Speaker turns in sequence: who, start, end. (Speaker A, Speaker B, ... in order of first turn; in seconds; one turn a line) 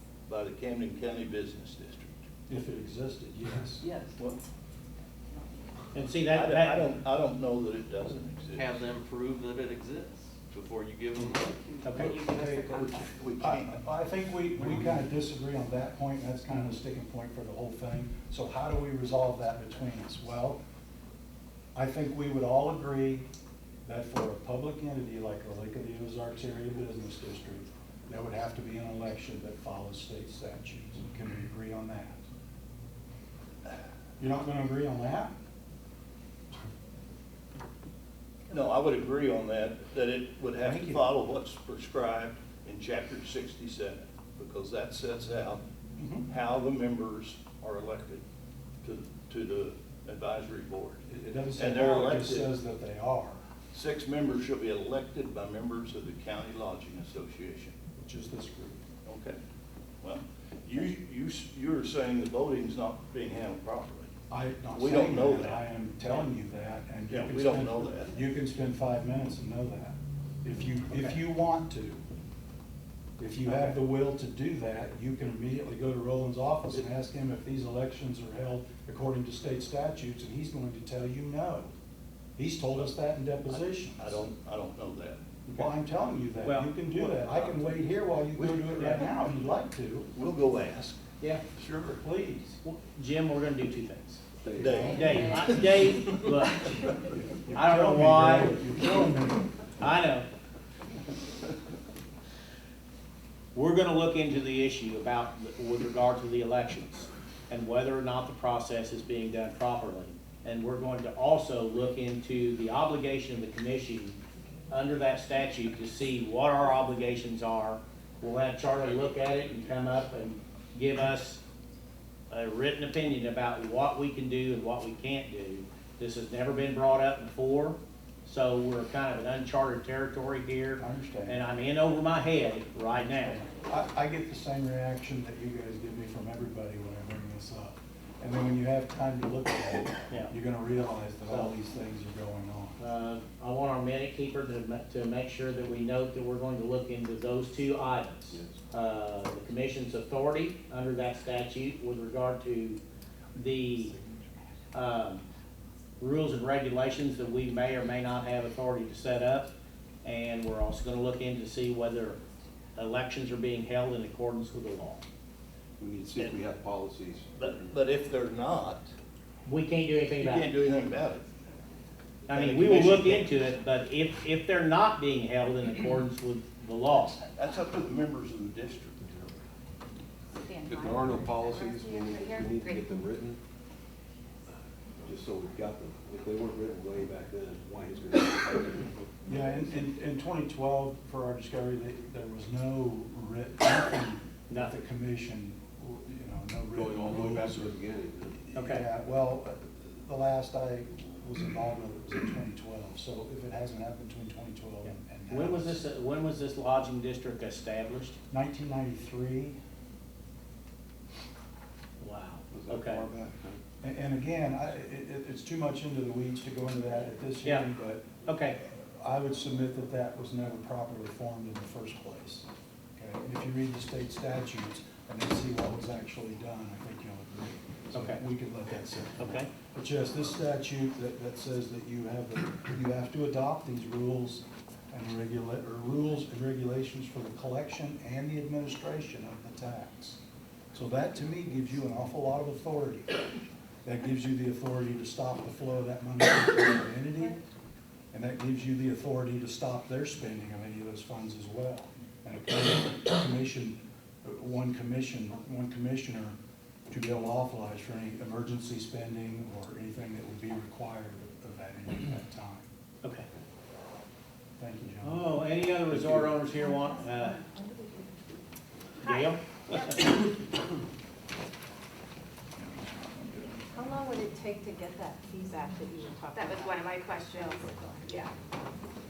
Speaker A: 0.3-2.2
Speaker B: 2.5-3.9
Speaker C: 3.8-4.2
Speaker D: 5.9-6.9
Speaker A: 6.3-8.8
Speaker C: 8.5-12.6
Speaker D: 11.8-12.2
Speaker B: 11.9-12.8
Speaker A: 12.6-13.8
Speaker B: 13.4-20.6
Speaker B: 21.8-23.3
Speaker B: 23.9-32.2
Speaker B: 34.2-35.3
Speaker A: 38.5-45.6
Speaker B: 40.6-41.0
Speaker B: 46.0-46.3
Speaker A: 46.3-48.2
Speaker A: 48.8-51.0
Speaker B: 51.1-53.4
Speaker A: 51.6-52.5
Speaker A: 53.7-57.8
Speaker B: 58.0-58.8
Speaker A: 59.0-59.4
Speaker A: 60.0-64.1
Speaker B: 64.3-72.0
Speaker A: 64.7-65.6
Speaker A: 67.1-68.1
Speaker B: 73.2-81.7
Speaker B: 82.4-84.3
Speaker A: 84.0-85.2
Speaker B: 85.5-90.1
Speaker D: 86.4-87.5
Speaker A: 88.4-88.7
Speaker D: 88.8-89.0
Speaker A: 90.1-91.0
Speaker A: 91.5-92.0
Speaker B: 91.8-92.6
Speaker D: 92.6-94.2
Speaker E: 94.4-95.0
Speaker A: 94.6-96.3
Speaker D: 94.8-96.8
Speaker F: 94.8-95.5
Speaker B: 97.4-99.5
Speaker D: 97.5-98.6
Speaker D: 99.8-100.3
Speaker D: 103.5-114.2
Speaker D: 114.7-121.4
Speaker D: 122.3-133.4
Speaker B: 130.8-131.4
Speaker B: 133.2-142.8
Speaker D: 141.3-141.5
Speaker D: 142.8-152.8
Speaker D: 153.3-153.9
Speaker D: 154.7-155.2
Speaker D: 156.0-159.5
Speaker D: 160.0-162.2
Speaker D: 162.8-165.0
Speaker E: 165.8-167.7
Speaker A: 167.4-168.9
Speaker D: 169.4-170.5
Speaker A: 170.2-171.3
Speaker D: 172.3-177.2
Speaker A: 172.3-173.4
Speaker A: 177.2-179.4
Speaker F: 180.3-183.1
Speaker E: 180.7-183.4
Speaker E: 185.0-189.1
Speaker B: 189.3-197.8
Speaker E: 196.7-198.4
Speaker B: 198.4-205.8
Speaker D: 198.6-198.9
Speaker D: 204.8-208.2
Speaker B: 208.3-209.6
Speaker D: 212.0-213.0
Speaker E: 212.5-213.6
Speaker B: 213.8-218.1
Speaker D: 218.3-218.6
Speaker B: 218.7-222.5
Speaker B: 223.0-240.2
Speaker D: 227.9-228.2
Speaker D: 229.2-229.5
Speaker B: 240.7-243.2
Speaker B: 243.8-247.4
Speaker B: 248.1-256.4
Speaker B: 256.9-262.7
Speaker B: 264.6-266.4
Speaker D: 265.0-267.4
Speaker G: 266.9-267.9
Speaker F: 269.0-269.9
Speaker D: 269.0-270.1
Speaker B: 272.6-273.4
Speaker G: 273.7-277.9
Speaker F: 276.3-278.3